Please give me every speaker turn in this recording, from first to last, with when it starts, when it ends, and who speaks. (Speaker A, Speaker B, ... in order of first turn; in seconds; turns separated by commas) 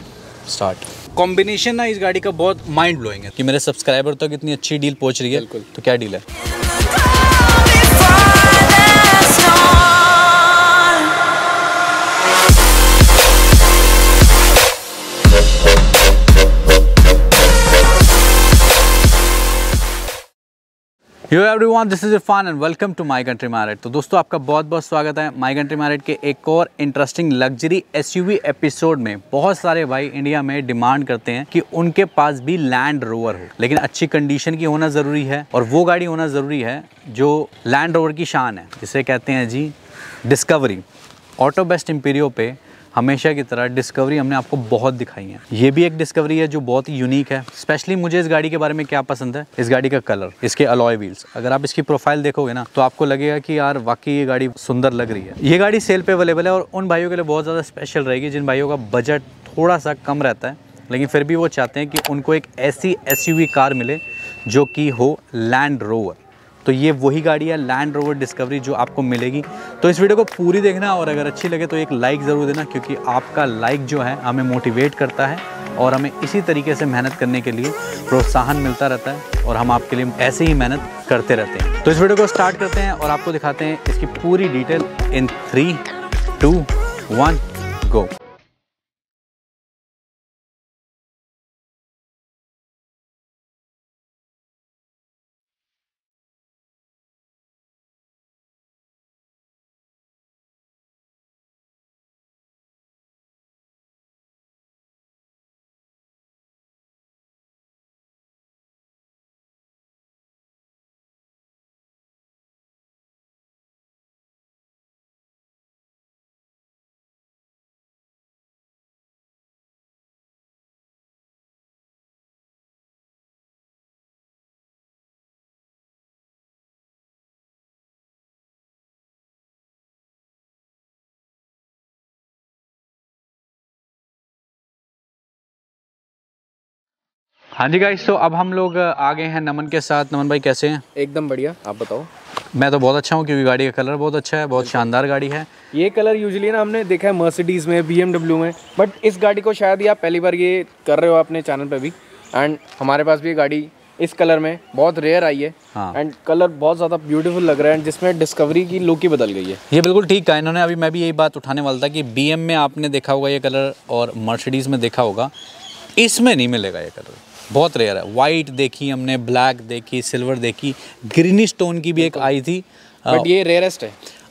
Speaker A: 0.5-6.2, Speaker B: 5.3-5.7, Speaker A: 21.3-40.8, Speaker A: 41.4-85.8, Speaker A: 86.4-88.1, Speaker A: 137.6-140.8, Speaker B: 141.0-142.1, Speaker A: 142.6-145.5, Speaker B: 144.6-144.9, Speaker B: 145.7-159.6, Speaker A: 159.7-165.3, Speaker A: 166.0-173.3, Speaker B: 172.0-172.3, Speaker B: 173.1-174.0